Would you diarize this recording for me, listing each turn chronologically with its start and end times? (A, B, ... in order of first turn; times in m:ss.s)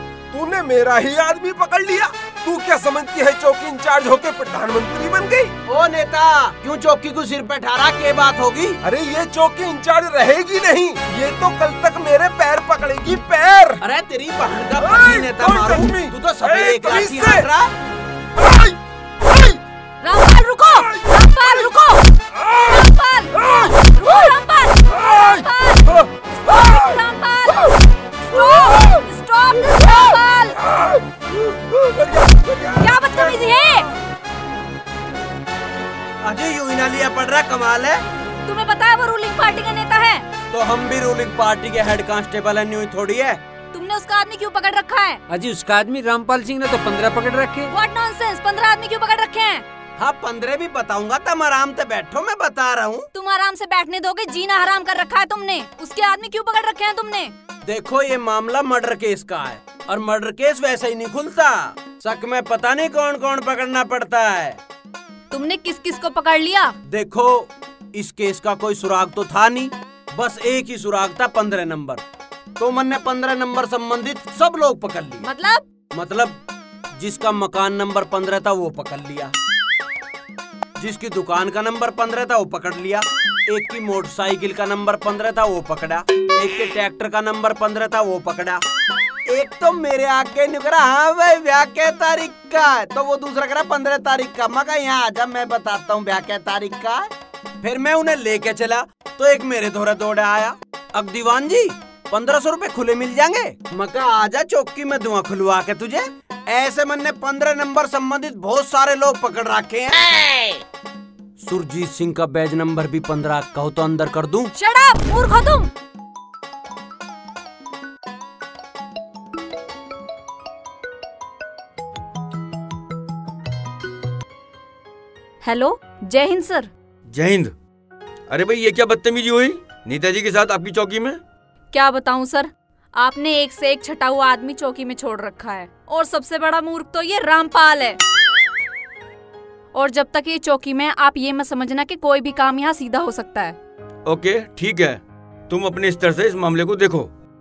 0:00.3-0:05.5 A
0:05.7-0:08.8 B
0:08.8-0:13.8 A
0:13.8-0:17.7 B
0:14.8-0:17.5 A
0:18.4-0:18.8 A
0:19.3-0:19.6 A
0:20.0-0:22.1 C
0:22.6-0:30.6 C
0:31.7-0:33.3 A
0:32.8-0:33.9 C
0:36.2-0:38.0 B
0:38.4-0:40.3 C
0:40.5-0:43.4 B
0:43.7-0:45.2 C
0:45.3-0:47.7 D
0:47.7-0:49.6 C
0:50.0-0:53.1 B
0:53.1-0:57.3 C
0:57.6-1:04.6 B
1:05.3-1:06.8 C
1:06.9-1:12.0 B
1:12.6-1:15.2 B
1:15.2-1:15.6 C
1:15.9-1:16.4 B
1:17.0-1:19.3 B
1:20.8-1:28.6 B
1:29.3-1:37.1 B
1:37.6-1:50.1 B
1:51.4-1:54.5 B
1:54.6-1:55.7 C
2:05.4-2:06.7 C
2:07.1-2:07.5 E
2:08.3-2:11.2 E
2:11.7-2:18.0 C
2:19.7-2:23.6 C
2:24.1-2:27.1 E